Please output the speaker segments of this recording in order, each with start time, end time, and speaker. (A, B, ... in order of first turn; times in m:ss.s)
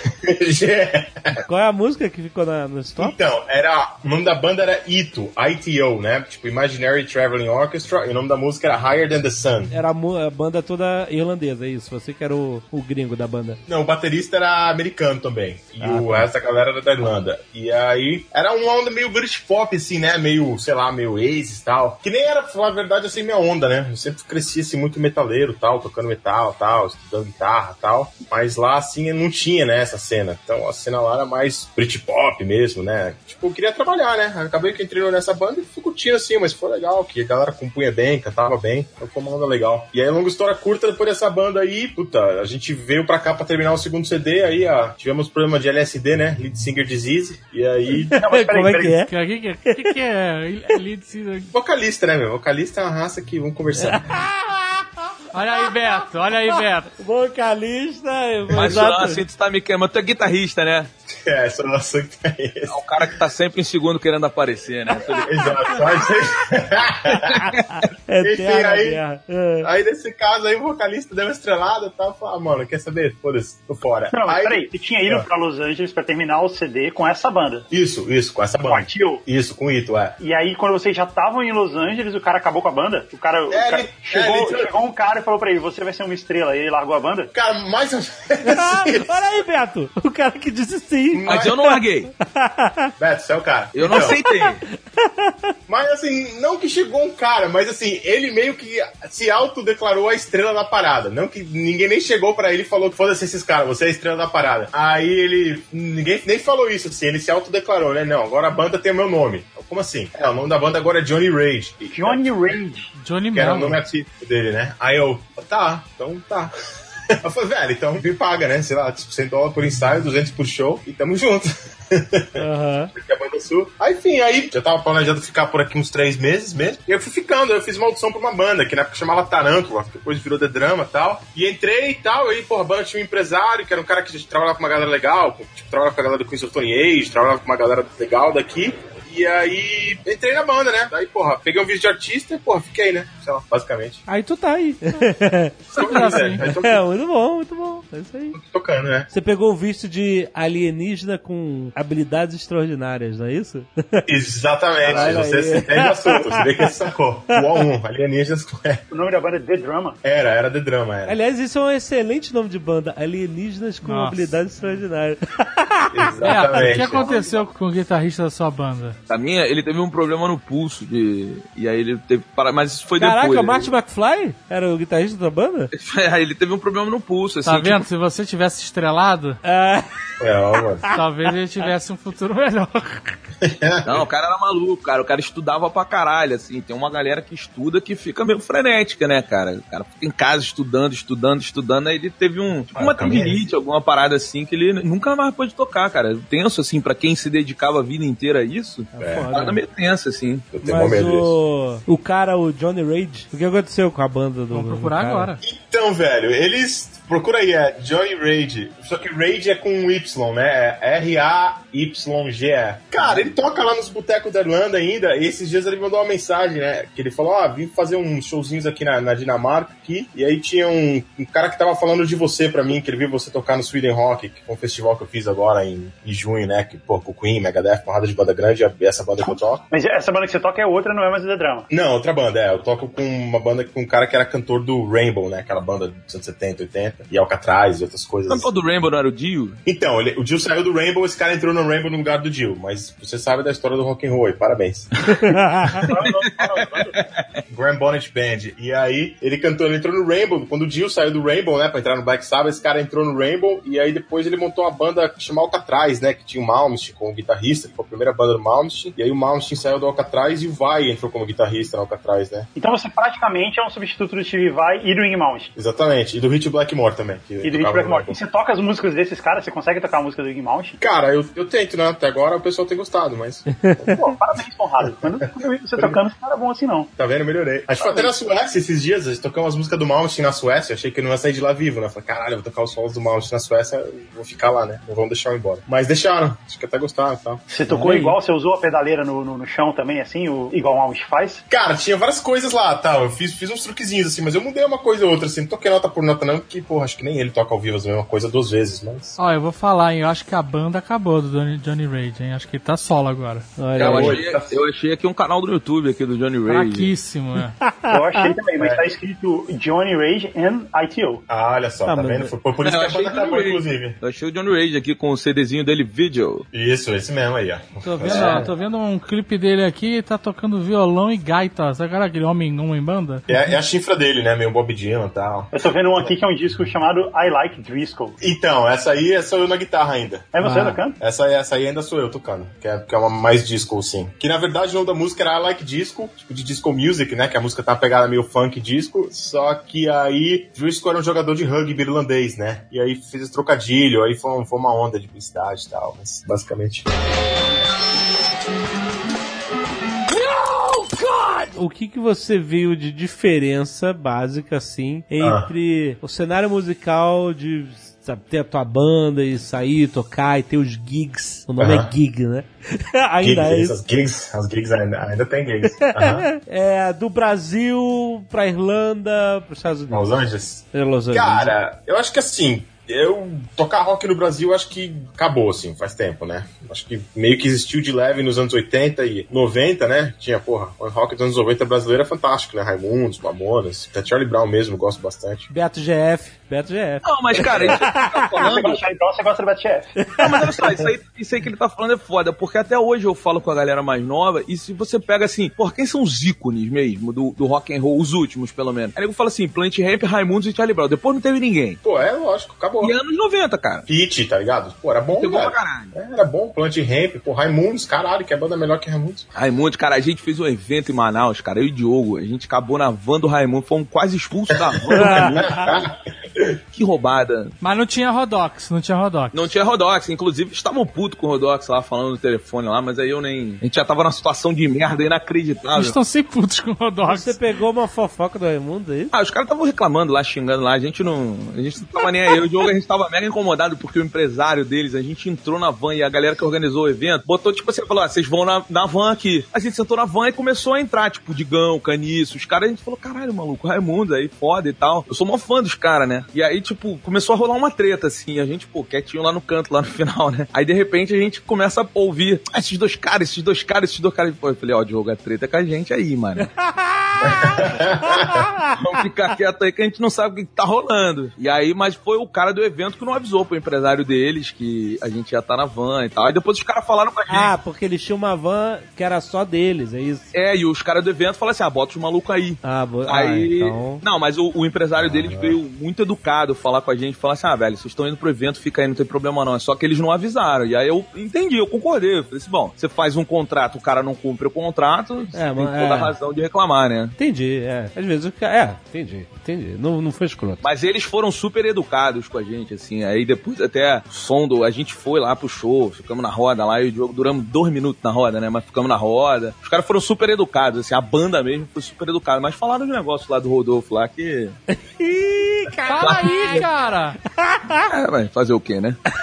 0:00.2-0:01.4 A
0:01.5-0:03.1 B
0:03.0-0:09.7 A
0:09.7-0:13.6 B
0:13.7-0:48.2 A
0:15.8-0:16.3 B
0:47.9-0:49.1 B
0:48.1-0:49.0 C
0:49.1-0:51.5 D
0:49.6-0:50.0 B
0:51.5-0:54.2 A
0:53.8-0:59.2 B
0:55.3-0:56.9 D
0:58.5-1:00.9 E
1:01.1-1:02.8 A
1:02.7-1:05.8 E
1:05.2-1:07.4 A
1:07.3-1:07.9 E
1:07.3-1:09.7 B
1:08.2-1:09.0 A
1:09.6-1:15.2 A
1:14.1-1:17.7 C
1:17.7-1:20.2 A
1:18.6-1:19.2 C
1:20.2-1:27.3 C
1:23.5-1:24.7 A
1:27.3-1:29.2 A
1:28.4-1:32.9 B
1:31.1-1:31.7 A
1:31.3-1:32.1 E
1:33.0-1:34.2 A
1:33.7-1:34.6 E
1:33.9-1:35.5 B
1:35.7-1:52.3 A
1:51.9-1:52.9 C
1:53.0-1:53.8 D
1:53.3-1:56.5 A
1:57.2-2:02.4 A
2:02.4-2:02.9 B
2:02.9-2:24.0 A
2:24.1-2:28.4 B
2:25.7-2:26.8 A
2:25.7-2:26.4 D
2:28.4-2:29.1 A
2:29.1-2:34.0 B
2:34.1-2:38.8 A
2:34.8-2:37.7 B
2:38.9-2:40.0 C
2:40.0-2:41.2 A
2:41.1-2:47.1 B
2:43.8-2:44.3 D
2:45.9-2:47.1 A
2:46.2-2:49.0 D
2:49.1-2:53.7 E
2:53.0-2:55.7 B
2:55.7-2:57.9 E
2:57.4-2:59.4 D
2:59.4-2:59.9 B
3:00.2-3:00.8 A
3:00.9-3:03.2 D
3:03.4-3:04.0 A
3:03.9-3:20.5 E
3:12.7-3:13.4 A
3:18.9-3:19.6 B
3:19.0-3:19.3 A
3:20.5-3:21.3 A
3:20.6-3:25.3 B
3:24.5-3:25.4 D
3:25.4-3:49.6 A
3:49.7-3:51.7 C
3:51.7-3:58.5 A
3:58.3-3:59.6 E
3:59.6-4:06.9 A
4:05.2-4:05.8 B
4:05.9-4:06.1 C
4:06.0-4:07.4 E
4:07.5-4:22.5 A
4:22.6-4:25.5 C
4:25.6-4:28.2 A
4:27.4-4:30.8 C
4:30.8-4:34.0 A
4:33.5-4:34.0 B
4:33.9-4:36.9 C
4:37.0-4:47.4 A
4:37.7-4:38.1 C
4:47.5-4:51.4 C
4:47.7-4:48.2 B
4:51.5-4:59.2 A
4:59.2-5:03.5 D
5:03.6-5:04.2 B
5:03.7-5:04.6 A
5:03.8-5:06.9 E
5:06.5-5:07.6 D
5:07.6-5:08.4 B
5:07.9-5:11.2 C
5:08.6-5:08.8 A
5:11.3-5:14.0 A
5:11.9-5:12.3 B
5:12.6-5:16.4 E
5:16.5-5:18.5 A
5:17.8-5:18.5 B
5:18.1-5:23.2 D
5:23.3-5:25.5 A
5:25.5-5:28.2 C
5:28.2-5:30.3 A
5:30.4-5:31.0 C
5:30.4-5:30.8 B
5:31.0-5:46.9 A
5:50.1-6:03.8 B
5:55.2-5:55.5 A
6:01.6-6:01.9 A
6:03.2-6:06.3 A
6:05.8-6:10.1 B
6:09.9-6:25.5 A
6:10.7-6:11.5 B
6:25.5-6:28.5 B
6:27.0-6:28.8 E
6:27.4-6:27.8 A
6:28.4-6:30.0 C
6:30.0-6:30.5 B
6:30.2-6:41.8 E
6:41.8-6:42.9 A
6:42.8-6:43.9 E
6:43.9-6:49.3 A
6:45.2-6:45.9 E
6:49.4-6:55.4 E
6:54.8-6:56.6 A
6:54.9-6:55.7 B
6:56.7-6:57.5 E
6:57.6-6:59.5 D
6:59.3-7:06.0 E
7:05.8-7:07.4 D
7:07.0-7:09.1 B
7:09.1-7:36.5 E
7:36.4-7:38.8 B
7:37.2-7:38.4 A
7:38.7-7:47.5 E
7:47.3-7:50.2 B
7:50.3-8:07.1 E
7:52.6-7:54.0 B
7:55.0-7:55.6 A
8:05.3-8:06.1 B
8:07.2-8:10.6 B
8:10.6-8:24.6 E
8:24.7-8:26.7 B
8:25.8-8:27.2 D
8:26.0-8:26.2 E
8:27.3-8:27.9 B
8:27.8-8:29.0 E